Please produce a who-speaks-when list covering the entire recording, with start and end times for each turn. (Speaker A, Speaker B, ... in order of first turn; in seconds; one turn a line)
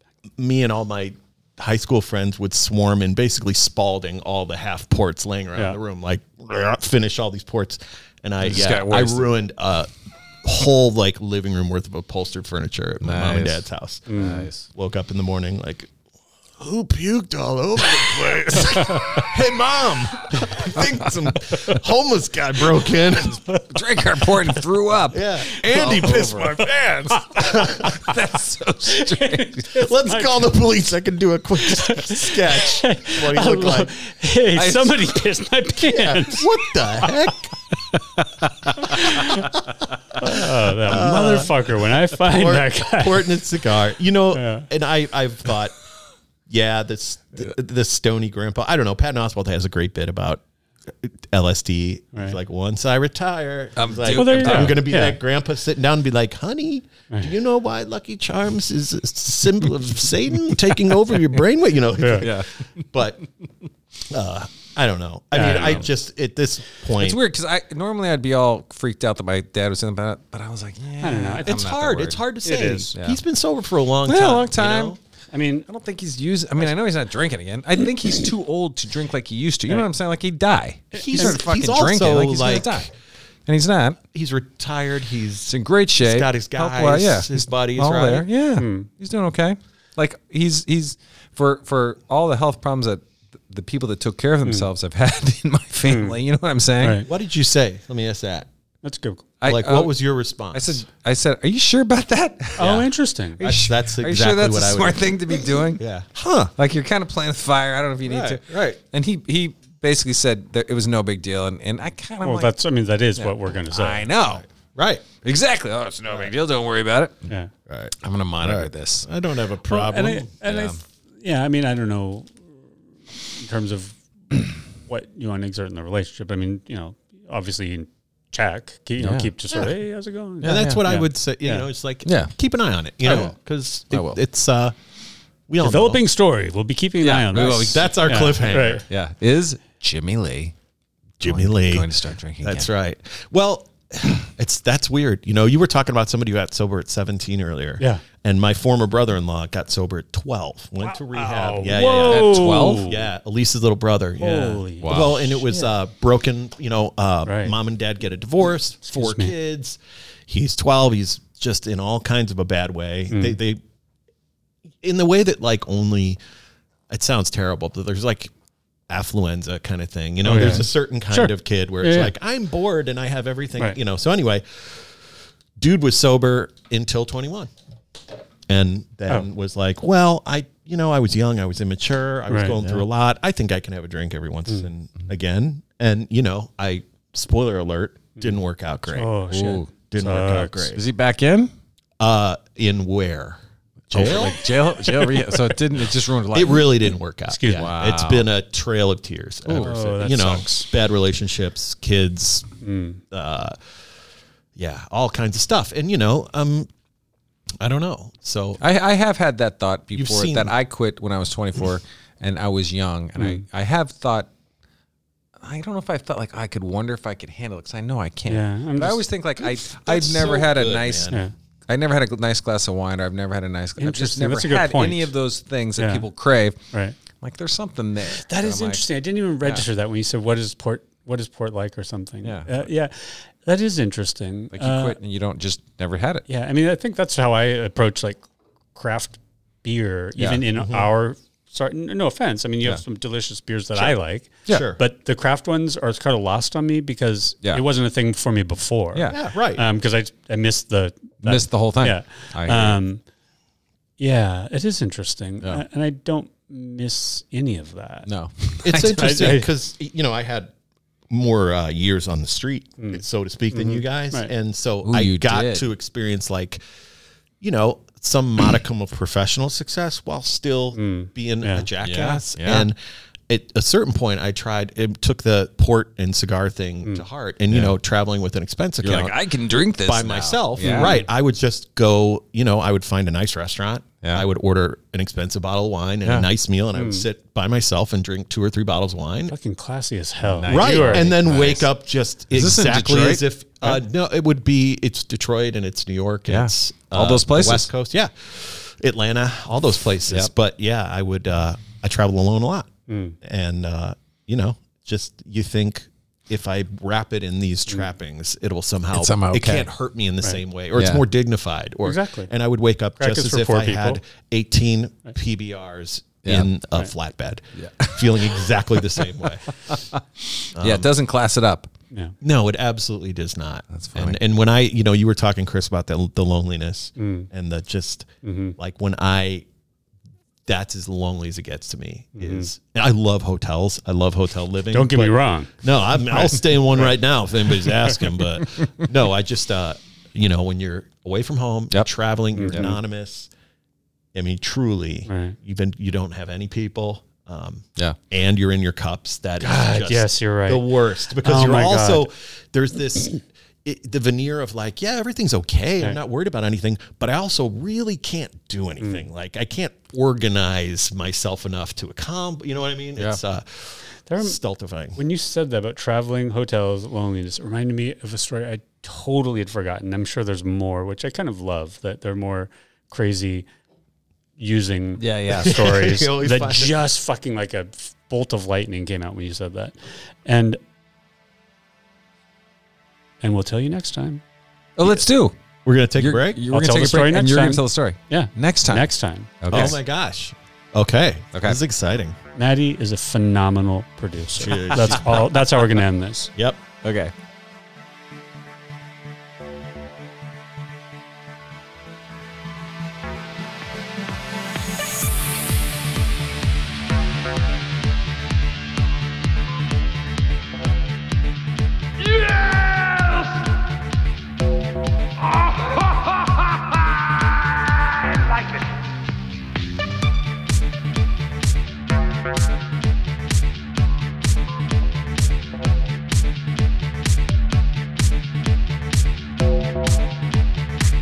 Speaker A: 0.4-9.9
Speaker B: 8.4-9.3
Speaker A: 10.4-14.1
Speaker B: 13.0-14.7
Speaker C: 14.1-14.5
Speaker A: 14.7-15.9
Speaker A: 16.6-23.4
Speaker B: 20.7-21.8
Speaker B: 23.6-26.6
Speaker A: 25.1-27.8
Speaker C: 25.7-28.0
Speaker B: 27.4-29.7
Speaker C: 28.9-30.5
Speaker A: 29.8-33.9
Speaker C: 31.6-37.3
Speaker B: 34.5-35.1
Speaker A: 35.9-37.5
Speaker C: 38.6-39.5
Speaker B: 38.9-39.4
Speaker C: 40.2-43.3
Speaker A: 40.2-45.8
Speaker C: 44.3-44.7
Speaker A: 46.5-50.4
Speaker A: 51.0-63.2
Speaker B: 53.8-54.9
Speaker C: 54.1-55.2
Speaker B: 60.5-61.1
Speaker C: 62.0-62.3
Speaker B: 62.1-62.6
Speaker A: 64.1-67.2
Speaker C: 65.3-65.9
Speaker B: 65.4-65.9
Speaker B: 66.9-72.2
Speaker C: 71.0-71.7
Speaker A: 71.4-75.0
Speaker C: 72.4-72.9
Speaker B: 73.0-73.2
Speaker B: 74.0-75.0
Speaker C: 75.3-75.7
Speaker B: 75.7-82.9
Speaker C: 80.9-81.4
Speaker A: 81.0-82.9
Speaker B: 83.5-84.0
Speaker A: 84.1-88.3
Speaker B: 85.5-97.0
Speaker C: 88.6-88.9
Speaker C: 95.8-96.2
Speaker C: 96.8-97.1
Speaker A: 97.0-98.5
Speaker C: 98.8-99.3
Speaker B: 99.4-100.0
Speaker A: 99.4-100.8
Speaker B: 100.5-105.8
Speaker C: 102.6-103.4
Speaker A: 103.4-106.5
Speaker B: 106.5-112.5
Speaker A: 108.1-108.8
Speaker C: 112.2-114.1
Speaker B: 113.2-114.5
Speaker A: 114.3-115.0
Speaker B: 115.1-117.3
Speaker A: 117.7-120.3
Speaker B: 118.0-119.1
Speaker C: 119.7-122.3
Speaker B: 120.4-120.8
Speaker C: 123.3-131.7
Speaker B: 129.0-129.3
Speaker B: 130.4-130.8
Speaker A: 130.4-134.8
Speaker B: 132.1-132.3
Speaker B: 133.0-133.3
Speaker B: 133.9-134.2
Speaker A: 135.5-136.0
Speaker C: 135.6-138.8
Speaker B: 137.0-140.6
Speaker A: 137.3-138.8
Speaker A: 141.2-141.9
Speaker B: 141.2-142.7
Speaker A: 142.4-163.6
Speaker C: 147.8-148.0
Speaker C: 150.8-153.1
Speaker B: 151.8-152.9
Speaker C: 154.2-155.7
Speaker B: 154.8-155.4
Speaker C: 157.3-157.6
Speaker C: 158.8-159.3
Speaker C: 163.1-163.4
Speaker A: 164.8-166.2
Speaker A: 166.9-168.3
Speaker A: 168.9-174.9
Speaker C: 170.2-172.1
Speaker A: 175.6-177.5
Speaker A: 178.5-190.8
Speaker C: 182.3-182.6
Speaker C: 188.9-190.8
Speaker B: 189.3-189.7
Speaker B: 190.8-191.5
Speaker A: 192.0-194.4
Speaker B: 193.9-196.8
Speaker A: 196.3-202.5
Speaker C: 197.3-197.7
Speaker B: 197.5-198.3
Speaker B: 199.4-199.8
Speaker C: 199.5-200.7
Speaker C: 202.6-203.0
Speaker A: 203.1-203.6
Speaker A: 204.6-206.7
Speaker A: 207.6-208.6
Speaker B: 208.6-214.3
Speaker A: 209.9-210.5
Speaker C: 213.2-213.4
Speaker B: 215.4-226.6
Speaker C: 218.3-219.0
Speaker A: 219.4-221.2
Speaker C: 223.8-225.1
Speaker C: 225.8-226.1
Speaker B: 227.2-228.8
Speaker C: 228.2-235.0
Speaker B: 232.2-232.7
Speaker B: 234.5-236.2
Speaker C: 236.3-238.2
Speaker C: 238.8-253.0
Speaker B: 240.2-240.5
Speaker A: 240.6-240.9
Speaker A: 244.5-244.8
Speaker B: 248.9-249.2
Speaker A: 249.1-249.7
Speaker B: 251.2-252.8
Speaker C: 254.0-258.1
Speaker B: 258.1-259.4
Speaker A: 258.6-260.5
Speaker C: 259.0-259.5
Speaker A: 261.1-266.6
Speaker C: 262.8-264.3
Speaker B: 264.8-265.7
Speaker A: 267.4-272.8
Speaker C: 270.8-271.7
Speaker B: 271.8-272.7
Speaker A: 273.3-279.1
Speaker B: 277.5-277.8
Speaker B: 278.8-281.0
Speaker A: 279.8-289.3
Speaker C: 280.6-281.1
Speaker B: 286.0-286.3
Speaker C: 286.7-287.1
Speaker C: 289.3-291.1
Speaker B: 290.2-291.7
Speaker A: 290.5-319.6
Speaker B: 292.3-293.2
Speaker B: 296.3-297.7
Speaker C: 302.9-303.2
Speaker B: 308.9-309.7
Speaker B: 310.8-311.0
Speaker C: 311.9-312.3
Speaker C: 313.0-314.0
Speaker B: 316.2-316.5
Speaker B: 317.6-321.7
Speaker A: 320.6-320.9
Speaker A: 322.2-329.4
Speaker B: 323.7-324.2
Speaker C: 327.0-327.3
Speaker C: 328.2-328.6
Speaker A: 330.5-343.3
Speaker C: 332.2-332.5
Speaker C: 334.7-337.0
Speaker C: 337.6-338.0
Speaker C: 342.4-342.8
Speaker B: 342.5-342.7
Speaker A: 344.1-365.0
Speaker C: 345.1-345.4
Speaker C: 349.4-352.1
Speaker C: 364.1-364.4
Speaker C: 365.0-373.5
Speaker C: 374.4-380.6
Speaker B: 375.0-375.8
Speaker A: 375.3-376.8
Speaker C: 383.2-384.2
Speaker B: 384.8-385.4
Speaker A: 384.8-385.1
Speaker A: 385.6-386.4
Speaker B: 385.9-388.9
Speaker C: 386.5-389.7
Speaker B: 389.4-389.8
Speaker A: 389.5-392.2
Speaker B: 391.3-391.6
Speaker C: 392.4-396.3
Speaker A: 394.4-395.3
Speaker B: 396.8-397.1